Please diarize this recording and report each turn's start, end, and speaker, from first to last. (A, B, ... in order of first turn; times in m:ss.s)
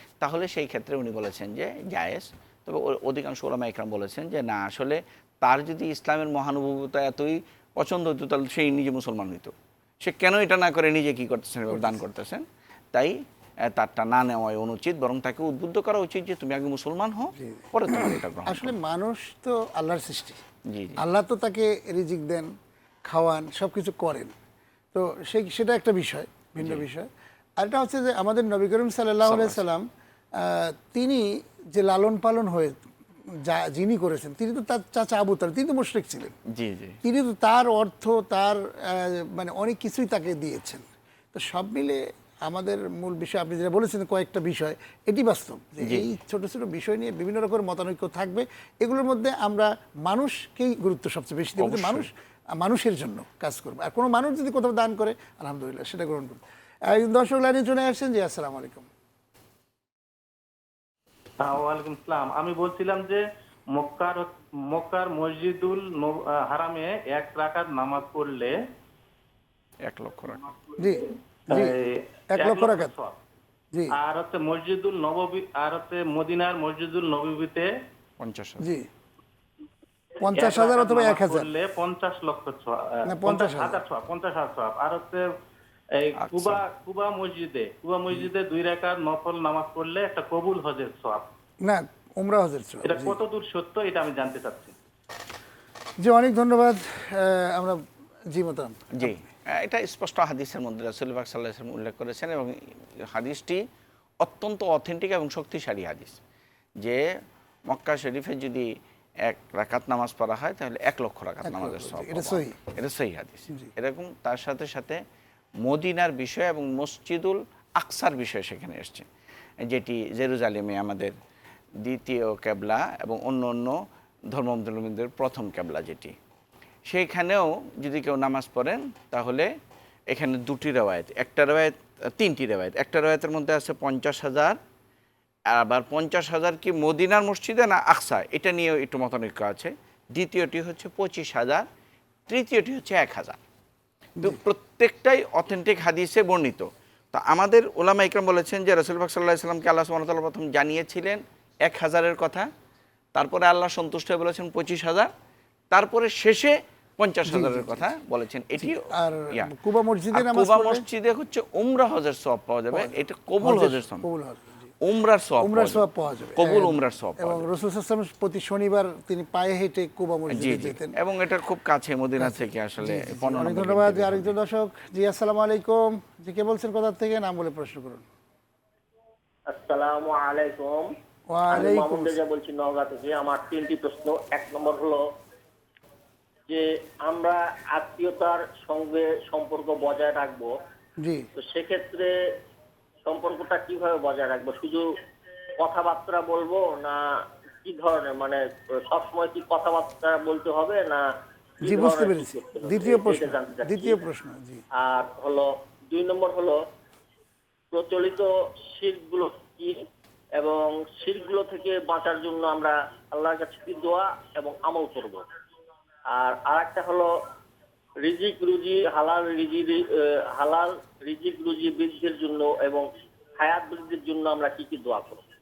0:00.2-0:18.7 A
0:11.7-0:12.0 B
0:17.4-0:20.4 B
0:20.7-0:21.0 A
0:21.0-0:22.5 B
0:23.0-0:24.3 B
0:24.9-0:27.1 B
0:27.6-0:32.9 B
0:29.2-0:29.6 A
0:33.4-0:36.4 B
0:36.5-0:37.0 A
0:37.0-0:58.9 B
0:51.6-0:52.1 A
1:01.4-1:03.2 C
1:03.7-1:08.6 C
1:09.8-1:10.5 A
1:10.8-1:12.9 B
1:11.5-1:13.2 C
1:13.9-1:17.7 C
1:18.2-1:18.7 A
1:18.6-1:18.9 B
1:20.2-1:21.5 B
1:20.2-1:25.2 C
1:23.1-1:23.8 B
1:26.0-1:31.3 C
1:26.2-1:26.6 A
1:31.6-1:33.2 B
1:32.8-1:34.8 C
1:36.0-1:39.1 B
1:38.9-1:43.6 A
1:44.2-1:46.2 A
1:47.7-1:48.7 A
1:49.2-1:55.0 A
1:51.4-1:52.6 B
1:55.6-1:59.1 A
1:59.6-2:01.2 A
2:01.8-2:03.8 A
2:04.3-2:06.1 A
2:06.9-2:09.5 A
2:10.1-2:14.6 A
2:15.5-2:21.7 A
2:22.3-2:23.4 A
2:24.2-2:32.5 A
2:33.1-2:35.1 A
2:35.7-2:39.5 A
2:37.3-2:37.9 B
2:38.6-2:40.8 B
2:40.1-2:44.0 A
2:42.7-2:44.7 B
2:44.8-2:45.8 A
2:45.4-2:50.9 B
2:46.4-2:47.4 A
2:50.3-2:54.3 A
2:52.2-2:58.0 B
2:59.5-3:00.9 D
3:01.3-3:02.2 B
3:01.5-3:05.0 D
3:06.5-3:10.5 D
3:11.0-3:11.3 B
3:11.4-3:12.1 D
3:13.0-3:14.9 D
3:15.6-3:21.1 D
3:21.6-3:24.0 D
3:21.6-3:24.6 B
3:24.7-3:26.6 D
3:27.7-3:29.8 D
3:30.4-3:35.2 D
3:36.1-3:37.1 D
3:38.0-3:42.9 D
3:43.4-3:45.2 D